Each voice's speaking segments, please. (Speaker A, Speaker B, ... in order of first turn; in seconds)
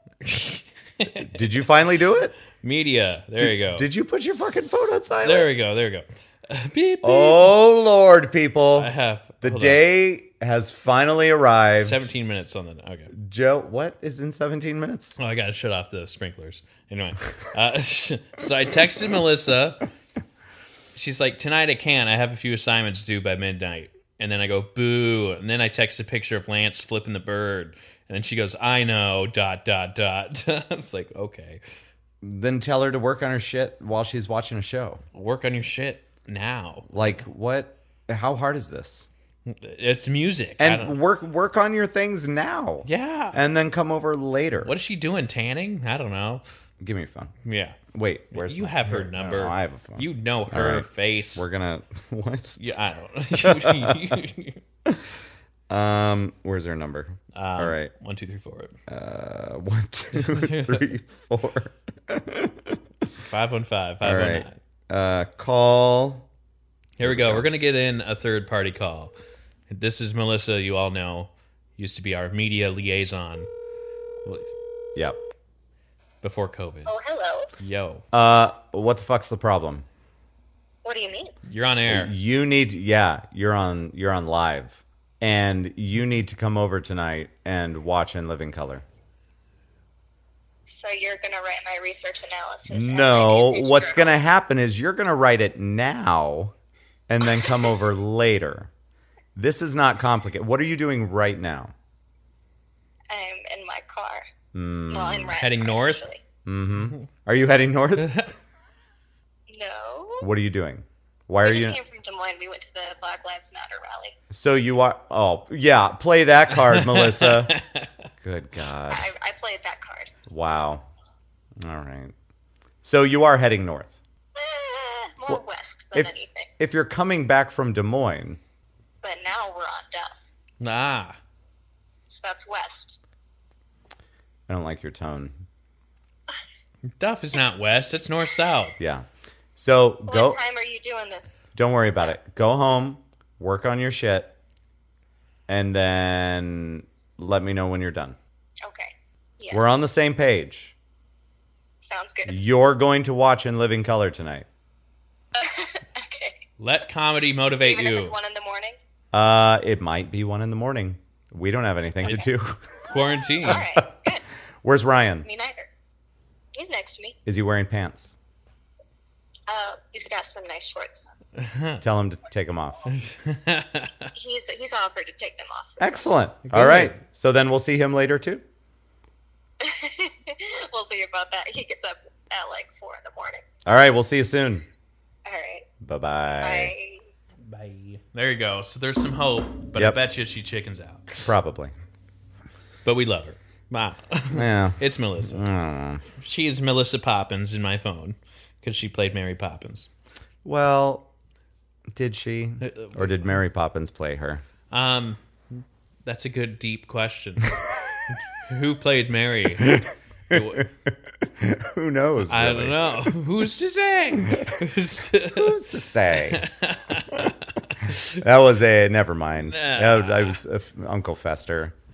Speaker A: 0.2-1.3, 2.6-7.5, 8.8-9.8, 11.8-13.1, 15.2-19.8, 20.9-31.6, 35.1-36.9, 39.5-41.0, 42.8-43.4, 44.6-46.4, 47.4-47.8, 48.3-51.5, 52.6-54.6, 57.3-58.7, 60.1-60.8, 63.1-64.5, 67.0-69.1, 69.7-73.5, 76.2-76.9, 77.6-78.0, 81.5-82.1, 105.4-106.1, 108.0-108.3, 116.7-117.9, 130.6-131.2, 137.0-138.8, 156.6-158.2, 162.8-163.6, 171.4-171.8, 172.9-174.1, 176.5-177.0, 187.5-191.2, 192.8-195.4, 196.2-199.9, 202.6-203.3, 204.7-207.6, 208.5-210.7, 212.3-215.5, 216.1-218.0, 219.5-220.4
Speaker B: 1.2-2.3, 3.4-5.5, 7.0-12.1, 13.1-15.2, 32.2-35.0, 36.9-39.1, 40.6-44.7, 46.8-47.3, 47.9-52.7, 53.3-54.1, 55.7-57.9, 58.9-62.8, 64.0-66.2, 67.0-67.5, 78.1-79.8, 81.9-88.8, 92.7-96.5, 97.1-98.7, 99.3-101.7, 104.5-105.3, 106.4-108.2, 110.2-111.8, 114.3-117.5, 118.2-119.1, 120.3-120.8, 121.6-122.1, 122.8-123.9, 125.9-128.4, 134.5-135.4, 138.8-140.4, 141.5-144.3, 145.5-148.2, 149.5-150.7, 152.2-154.5, 159.1-162.7, 163.5-163.8, 164.6-165.3, 167.2-168.2, 171.8-172.8, 175.8-178.4, 183.7-184.7, 185.8-186.7, 191.2-191.7, 194.3-196.0, 200.4-201.1, 201.9-204.4, 209.6-213.1, 215.3-216.4, 217.8-221.7
Speaker C: 76.8-77.5, 80.8-81.3, 90.7-94.2, 97.3-97.7, 103.1-104.2, 104.9-106.2, 109.5-110.3, 111.4-114.2, 118.9-120.1, 124.3-126.5, 129.0-130.3, 132.1-133.0, 140.1-142.2, 148.6-149.8, 151.8-152.5, 155.3-156.3, 157.6-158.8, 163.4-164.2, 165.2-165.7, 166.5-167.2, 169.5-171.1, 174.2-175.8, 179.6-183.4, 185.2-185.7, 186.4-187.0